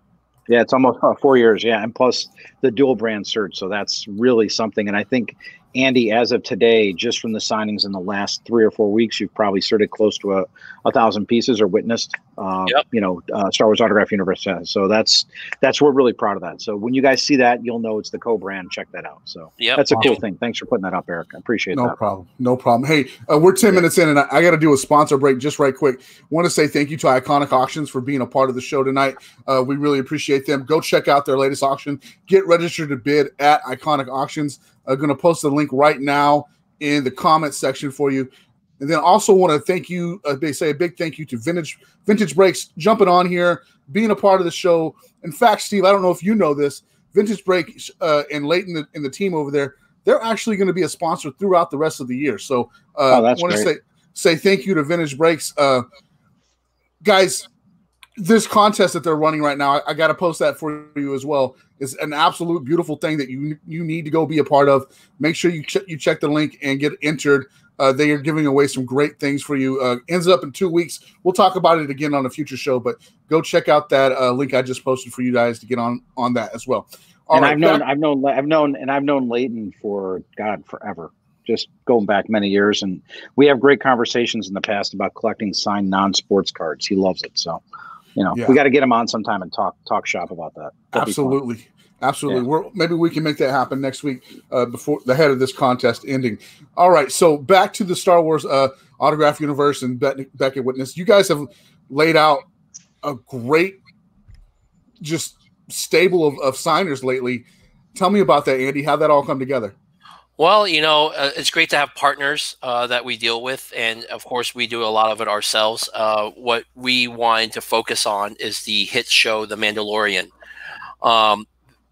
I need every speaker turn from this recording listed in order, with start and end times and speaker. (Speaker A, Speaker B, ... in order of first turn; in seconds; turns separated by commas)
Speaker A: 0.5-21.9, Speaker B: 19.6-20.2, Speaker C: 21.7-55.8, Speaker A: 53.1-53.7, Speaker C: 57.0-57.5, Speaker C: 58.2-77.8, Speaker A: 77.3-87.6, Speaker A: 88.2-91.4, Speaker C: 88.3-88.6, Speaker C: 90.9-102.5, Speaker C: 103.0-103.8, Speaker C: 105.0-109.7, Speaker B: 110.4-120.3, Speaker B: 121.0-121.5